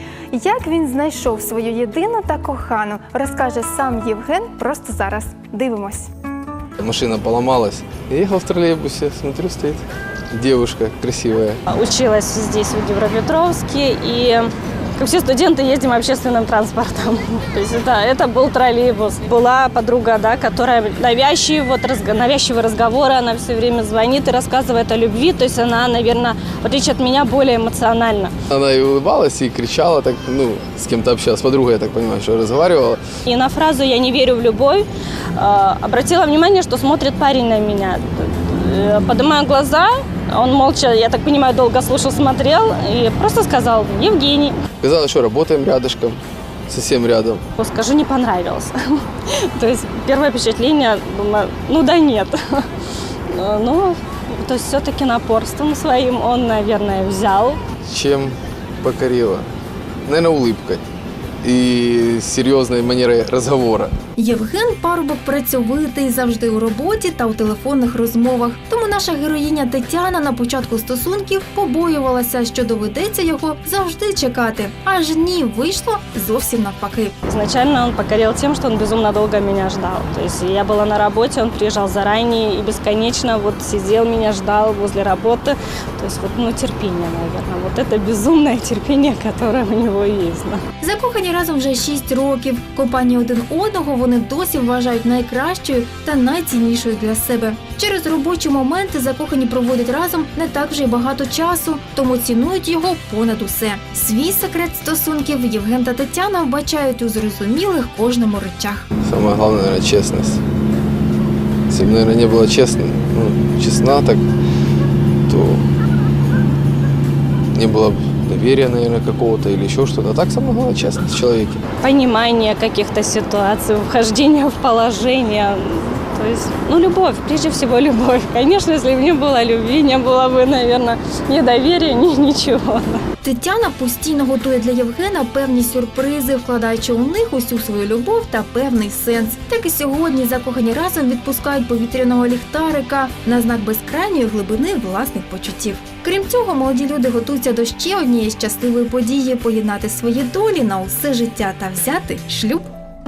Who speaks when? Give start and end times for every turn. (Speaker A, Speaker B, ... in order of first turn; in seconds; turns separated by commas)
Speaker A: 0.3-6.1, Speaker B: 6.8-11.6, Speaker C: 11.7-28.3, Speaker B: 28.5-33.0, Speaker C: 33.2-44.6, Speaker B: 44.8-47.4, Speaker C: 47.5-52.7, Speaker C: 53.3-57.6, Speaker B: 57.9-59.5, Speaker B: 60.0-60.9, Speaker B: 61.4-64.0, Speaker A: 64.2-77.1, Speaker C: 77.2-90.6, Speaker A: 90.8-108.9, Speaker B: 109.0-110.4, Speaker B: 111.7-114.2, Speaker B: 115.3-115.7, Speaker B: 117.5-121.6, Speaker C: 121.8-133.0, Speaker A: 133.2-152.7